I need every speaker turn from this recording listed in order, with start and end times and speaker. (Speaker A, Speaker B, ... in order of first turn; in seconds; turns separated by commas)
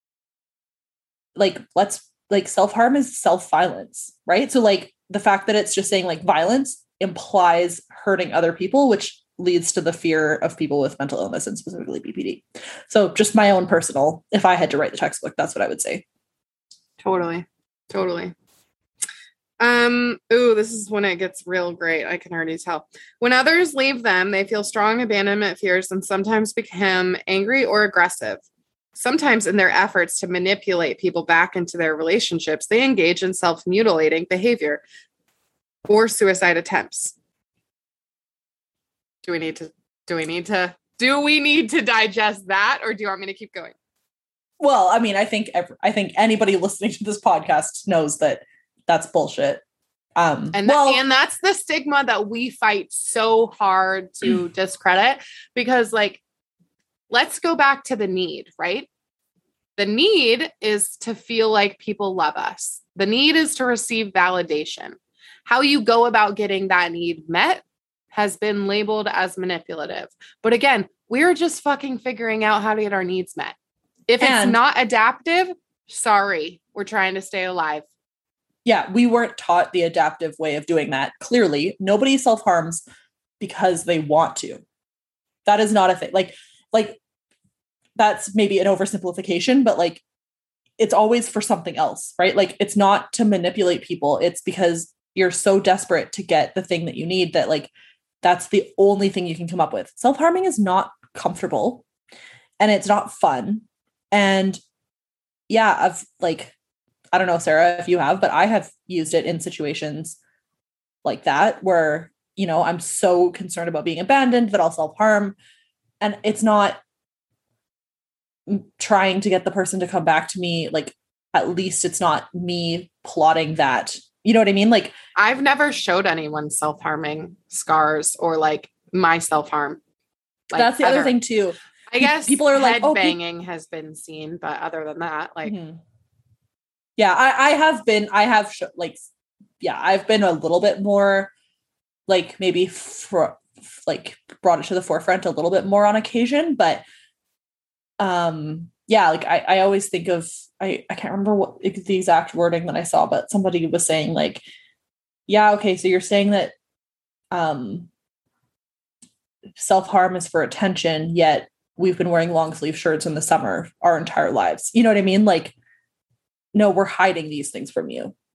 Speaker A: 1.4-16.0, Speaker B: 17.0-18.3, Speaker B: 19.6-28.4, Speaker B: 28.9-34.8, Speaker B: 35.9-37.1, Speaker B: 39.2-43.8, Speaker A: 44.6-49.6, Speaker A: 50.2-51.0, Speaker B: 50.5-56.2, Speaker B: 57.1-58.9, Speaker B: 59.8-73.6, Speaker B: 74.1-77.9, Speaker A: 74.2-74.6, Speaker A: 78.7-82.8, Speaker A: 83.4-84.6, Speaker A: 85.5-87.0, Speaker A: 88.0-90.0, Speaker A: 90.8-97.7, Speaker A: 98.2-101.8, Speaker A: 102.6-104.6, Speaker A: 105.5-106.5, Speaker A: 107.1-110.2, Speaker A: 111.0-115.3, Speaker A: 116.0-116.8, Speaker A: 118.5-124.9, Speaker B: 125.2-129.8, Speaker B: 130.5-131.2, Speaker A: 130.6-133.2, Speaker B: 131.9-135.6, Speaker A: 135.4-135.8, Speaker A: 137.0-139.1, Speaker A: 139.6-141.3, Speaker A: 142.1-146.8, Speaker A: 148.0-154.4, Speaker A: 155.3-156.5, Speaker A: 157.3-157.9, Speaker A: 159.6-165.6, Speaker A: 166.5-168.1